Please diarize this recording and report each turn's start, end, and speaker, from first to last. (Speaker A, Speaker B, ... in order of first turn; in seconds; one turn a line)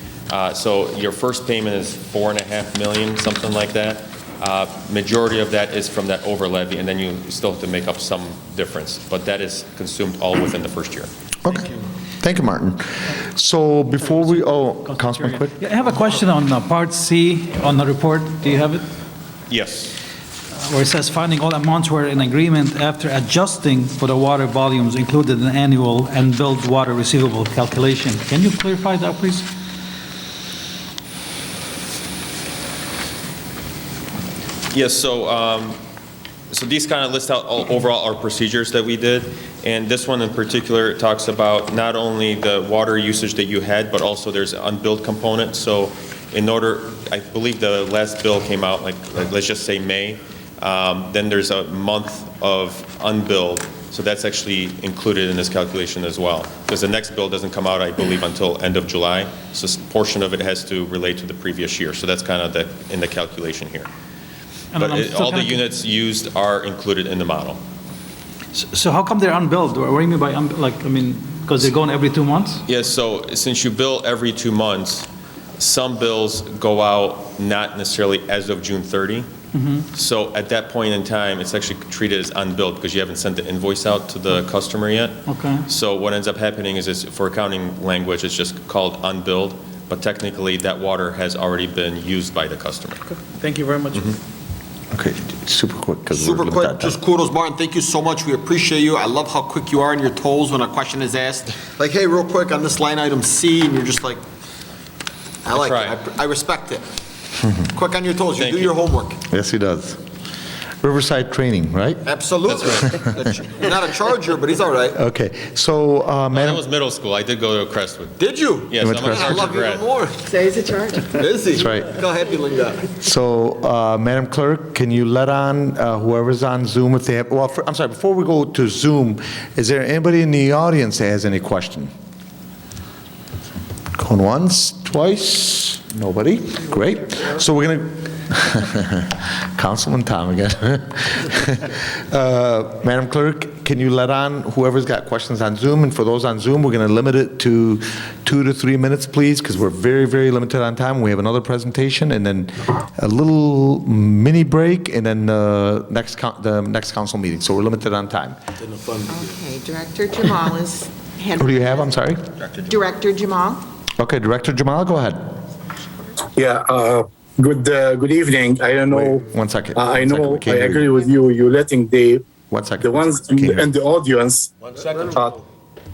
Speaker A: 0.3-11.1
Speaker B: 11.4-15.6
Speaker C: 14.9-18.8
Speaker A: 19.5-19.9
Speaker C: 20.6-29.5
Speaker A: 34.7-35.8
Speaker A: 36.5-63.9
Speaker C: 64.7-65.6
Speaker A: 64.8-67.6
Speaker C: 68.5-72.6
Speaker A: 72.7-75.1
Speaker A: 75.6-79.3
Speaker C: 79.5-79.9
Speaker A: 79.9-93.0
Speaker C: 85.3-85.7
Speaker C: 93.3-94.1
Speaker A: 93.9-94.2
Speaker B: 94.9-97.0
Speaker D: 96.1-104.2
Speaker D: 105.4-106.8
Speaker A: 105.5-106.0
Speaker D: 107.7-109.2
Speaker A: 108.3-108.8
Speaker B: 109.3-110.0
Speaker B: 110.8-112.0
Speaker D: 112.0-115.0
Speaker A: 112.5-112.9
Speaker B: 114.9-116.6
Speaker A: 116.3-119.9
Speaker D: 118.2-120.2
Speaker B: 118.8-119.5
Speaker E: 120.2-121.3
Speaker D: 121.1-122.9
Speaker B: 121.5-122.0
Speaker B: 122.9-131.9
Speaker B: 133.9-158.4
Speaker D: 158.6-159.4
Speaker E: 159.1-162.0
Speaker B: 161.4-162.2
Speaker D: 162.4-162.9
Speaker E: 162.6-163.7
Speaker B: 164.0-165.3
Speaker F: 166.3-172.2
Speaker B: 168.9-170.9
Speaker B: 172.5-173.7
Speaker F: 172.8-174.5
Speaker D: 174.6-175.4